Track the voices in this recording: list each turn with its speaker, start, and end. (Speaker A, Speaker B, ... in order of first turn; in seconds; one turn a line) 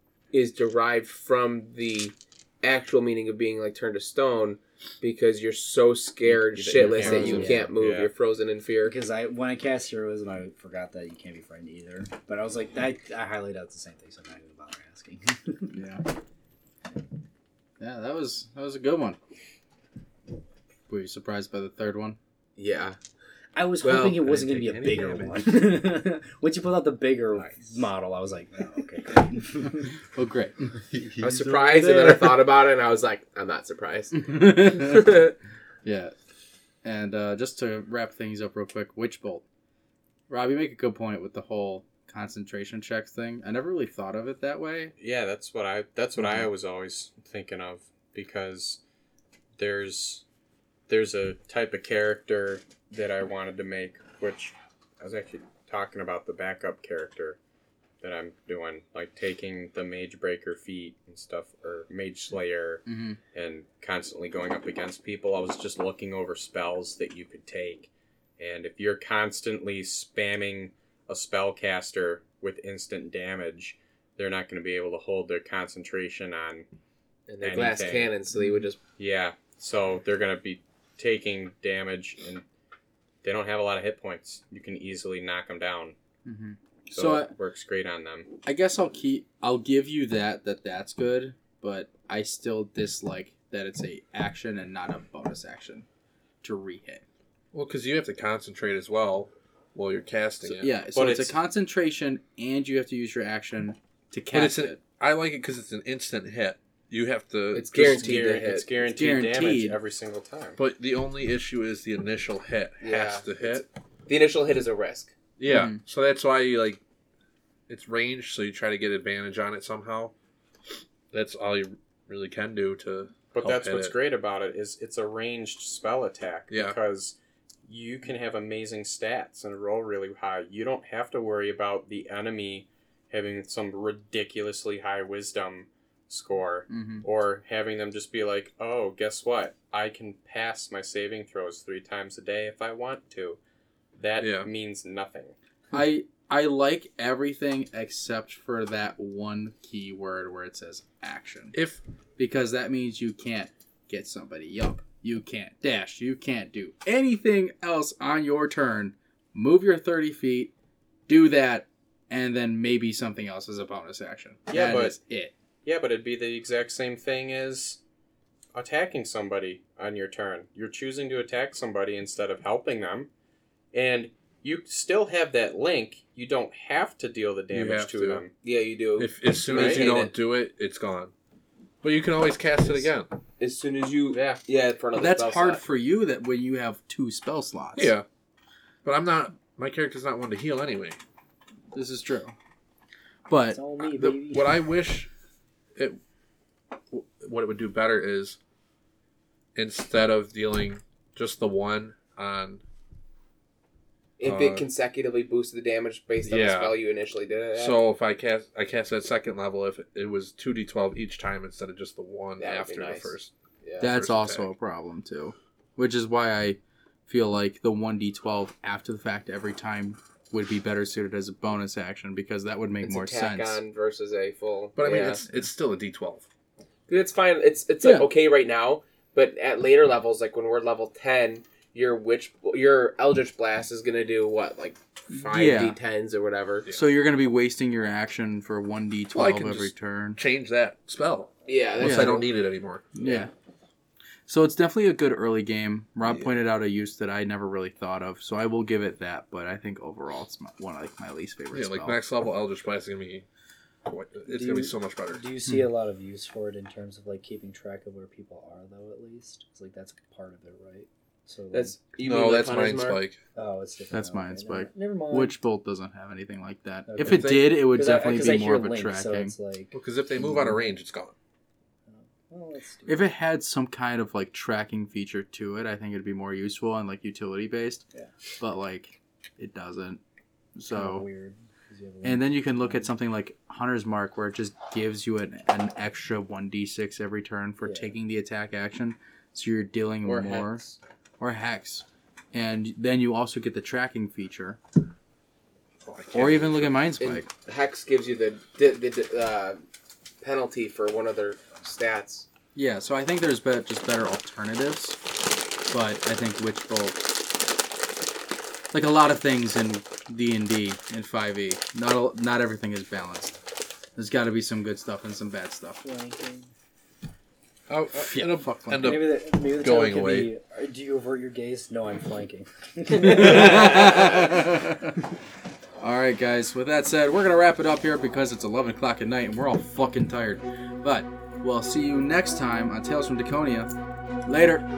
Speaker A: 0.3-8.9
Speaker B: 6.3-7.7
Speaker C: 6.8-8.1
Speaker B: 8.8-15.8
Speaker D: 15.7-16.0
Speaker D: 17.8-19.2
Speaker D: 20.9-22.2
Speaker A: 22.6-23.0
Speaker B: 23.6-30.0
Speaker A: 23.8-24.3
Speaker E: 24.2-25.7
Speaker A: 27.4-27.8
Speaker D: 30.1-30.7
Speaker B: 30.9-32.3
Speaker A: 31.2-35.4
Speaker D: 34.2-35.2
Speaker D: 35.8-36.1
Speaker D: 36.8-39.5
Speaker D: 40.3-44.9
Speaker C: 45.0-48.8
Speaker D: 46.2-46.5
Speaker C: 49.6-50.2
Speaker C: 50.9-57.4
Speaker C: 58.0-76.7
Speaker D: 62.9-63.2
Speaker A: 77.3-78.8
Speaker C: 77.4-78.2
Speaker C: 79.0-82.4
Speaker C: 83.2-86.0
Speaker D: 86.2-87.3
Speaker C: 86.9-88.3
Speaker D: 88.5-95.9
Speaker D: 96.4-97.0
Speaker E: 97.5-100.7
Speaker C: 100.5-101.4
Speaker D: 100.6-104.8
Speaker E: 104.3-108.4
Speaker A: 107.5-108.7
Speaker C: 108.0-110.6
Speaker D: 108.9-109.8
Speaker E: 110.6-113.7
Speaker A: 112.8-115.1
Speaker E: 115.4-116.8
Speaker D: 115.5-115.8
Speaker E: 117.7-120.1
Speaker E: 121.1-124.0
Speaker C: 123.3-143.4
Speaker E: 126.5-126.8
Speaker D: 136.7-137.1
Speaker C: 144.0-145.3
Speaker E: 144.2-144.5
Speaker D: 145.7-151.6
Speaker E: 151.5-151.8
Speaker D: 152.2-160.5
Speaker D: 161.1-165.3
Speaker C: 164.5-165.0
Speaker C: 165.7-167.8
Speaker C: 168.5-173.1
Speaker C: 173.7-178.3
Speaker E: 177.5-178.2
Speaker A: 178.4-180.1
Speaker E: 179.0-181.1
Speaker D: 179.5-179.9
Speaker C: 179.6-179.8
Speaker E: 181.8-183.1
Speaker A: 183.4-185.6
Speaker D: 184.9-187.9
Speaker E: 187.8-188.1
Speaker E: 188.8-191.0
Speaker D: 191.7-192.3
Speaker D: 193.3-193.6
Speaker B: 193.5-194.7
Speaker E: 193.8-195.1
Speaker E: 196.9-198.4
Speaker E: 199.6-202.6
Speaker A: 204.2-207.8
Speaker E: 204.2-204.7
Speaker E: 206.3-206.9
Speaker E: 207.6-214.5
Speaker A: 212.4-213.8
Speaker D: 213.8-223.6
Speaker A: 222.8-225.2
Speaker E: 224.8-226.3
Speaker A: 226.9-236.7
Speaker D: 227.8-228.1
Speaker D: 235.1-235.8
Speaker D: 236.7-240.2
Speaker E: 239.2-242.9
Speaker A: 241.5-242.3
Speaker D: 241.8-242.2
Speaker D: 242.9-243.3
Speaker A: 243.0-243.3
Speaker D: 244.3-252.0
Speaker E: 251.5-253.3
Speaker E: 253.9-255.3
Speaker B: 254.3-261.8
Speaker A: 261.5-263.1
Speaker E: 262.0-263.2
Speaker B: 263.4-265.4
Speaker D: 263.9-269.3
Speaker B: 266.9-270.8
Speaker E: 267.0-267.7
Speaker E: 269.7-271.1
Speaker B: 271.9-273.1
Speaker D: 272.9-277.8
Speaker D: 278.4-280.0
Speaker D: 280.6-281.1
Speaker B: 280.7-282.9
Speaker D: 282.0-290.6
Speaker B: 287.6-288.0
Speaker A: 290.1-290.8
Speaker D: 291.2-294.6
Speaker E: 295.8-296.8
Speaker D: 296.1-297.3
Speaker A: 297.0-299.6
Speaker A: 300.2-302.3
Speaker D: 302.6-305.0
Speaker D: 305.7-307.0
Speaker D: 308.7-313.4
Speaker D: 314.0-315.8
Speaker B: 315.8-316.5
Speaker E: 317.7-320.3
Speaker D: 318.0-319.0
Speaker B: 318.8-324.2
Speaker D: 323.0-325.0
Speaker A: 323.3-323.9
Speaker D: 325.8-333.7
Speaker D: 334.3-334.6